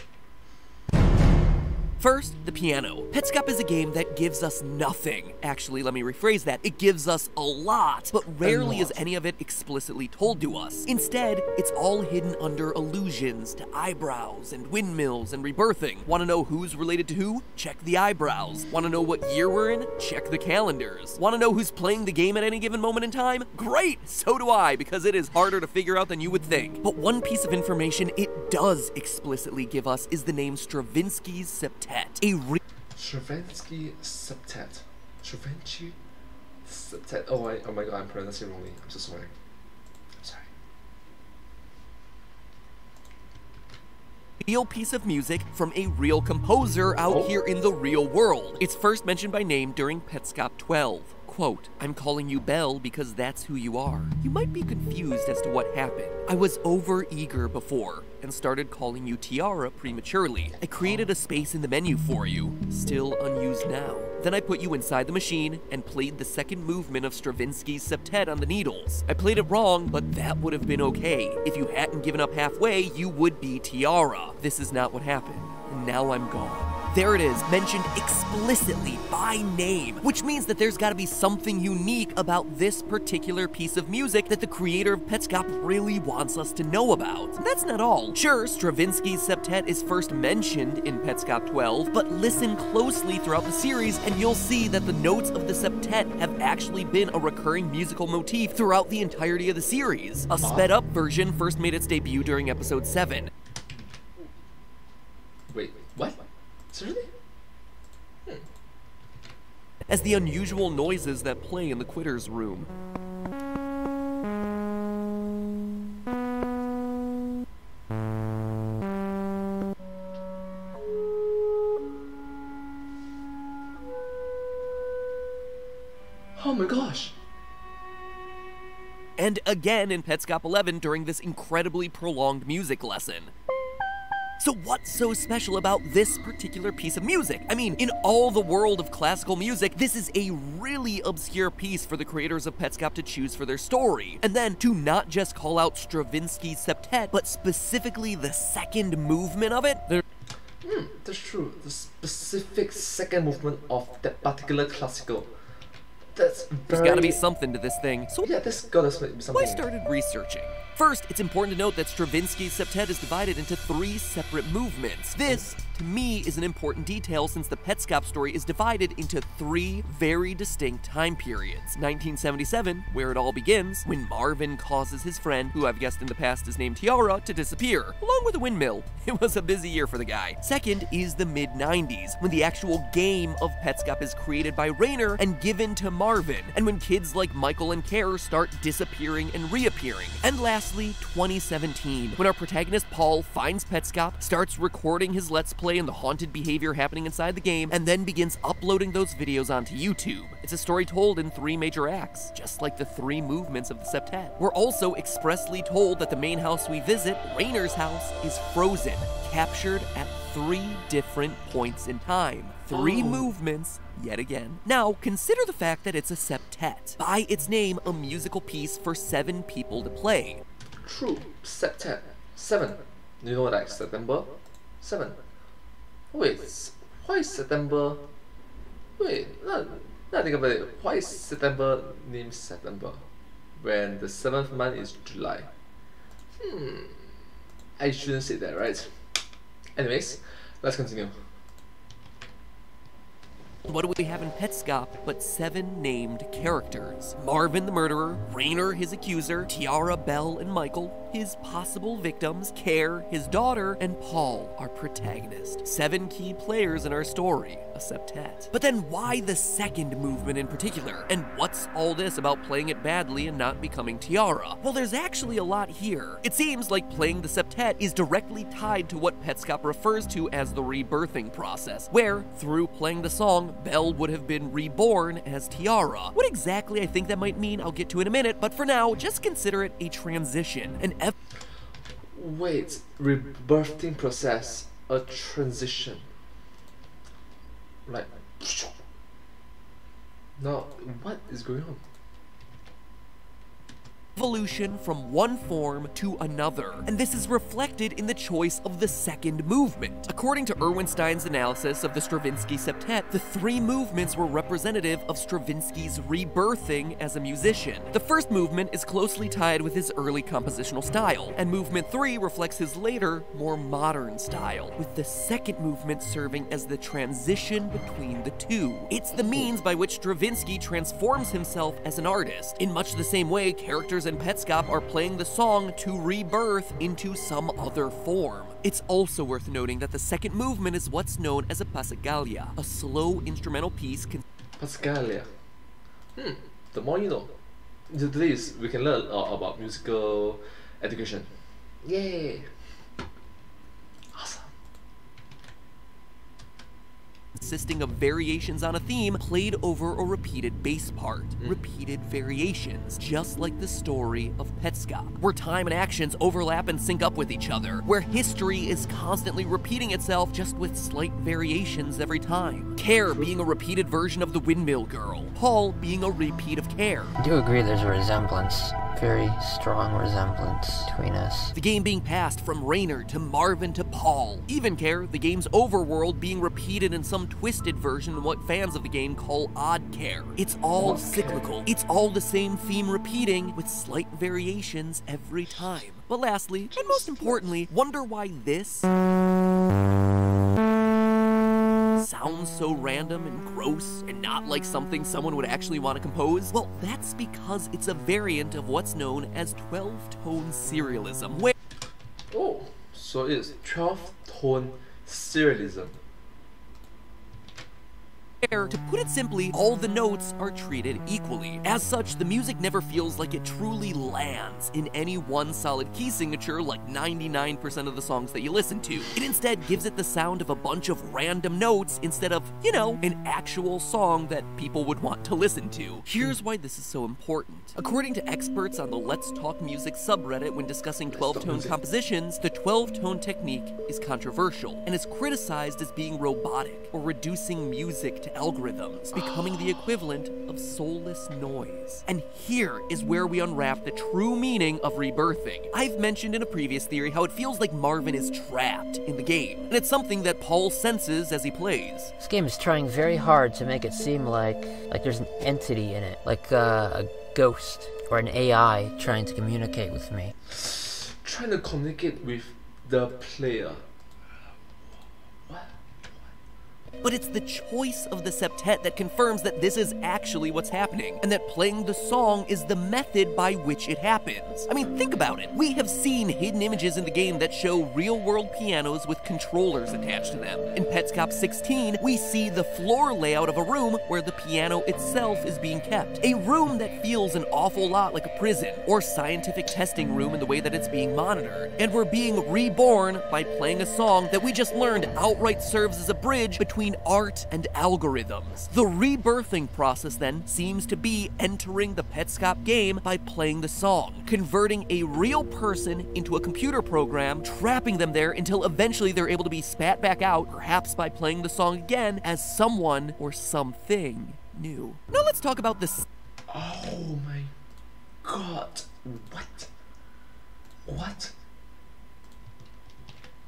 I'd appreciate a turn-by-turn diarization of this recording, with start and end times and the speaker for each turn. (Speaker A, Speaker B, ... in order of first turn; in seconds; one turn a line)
Speaker A: 2.0-32.6
Speaker B: 8.4-9.0
Speaker B: 32.9-36.0
Speaker B: 36.6-39.3
Speaker B: 40.2-40.5
Speaker A: 44.4-103.3
Speaker B: 47.0-47.3
Speaker B: 60.8-61.1
Speaker B: 100.4-100.7
Speaker B: 105.5-106.2
Speaker B: 106.7-107.1
Speaker A: 109.9-112.7
Speaker B: 126.4-127.2
Speaker A: 129.2-133.3
Speaker A: 134.4-150.0
Speaker B: 150.6-155.3
Speaker B: 156.1-157.2
Speaker A: 156.7-158.3
Speaker B: 158.2-159.7
Speaker A: 159.3-220.4
Speaker B: 212.7-213.3
Speaker B: 220.8-225.2
Speaker B: 226.1-228.0
Speaker B: 229.0-233.0
Speaker B: 233.6-235.5
Speaker B: 236.3-237.1
Speaker B: 237.8-238.9
Speaker B: 239.8-241.1
Speaker A: 243.7-281.1
Speaker B: 282.1-286.1
Speaker B: 287.9-288.8
Speaker B: 290.4-291.8
Speaker A: 294.1-334.2
Speaker B: 319.2-319.5
Speaker B: 334.6-335.3
Speaker B: 336.1-337.3
Speaker B: 337.9-341.3
Speaker B: 341.8-342.6
Speaker B: 344.1-344.5
Speaker A: 347.4-367.1
Speaker B: 363.1-363.4
Speaker C: 367.2-371.5
Speaker A: 371.5-388.9
Speaker B: 380.8-381.4
Speaker B: 386.8-387.5
Speaker A: 391.9-401.5
Speaker B: 402.3-406.0
Speaker A: 408.4-452.1
Speaker B: 431.1-431.8
Speaker C: 452.2-460.3
Speaker B: 460.5-463.8
Speaker B: 465.5-465.8
Speaker A: 467.0-516.1
Speaker B: 516.5-517.5
Speaker B: 518.2-519.7
Speaker B: 520.9-521.3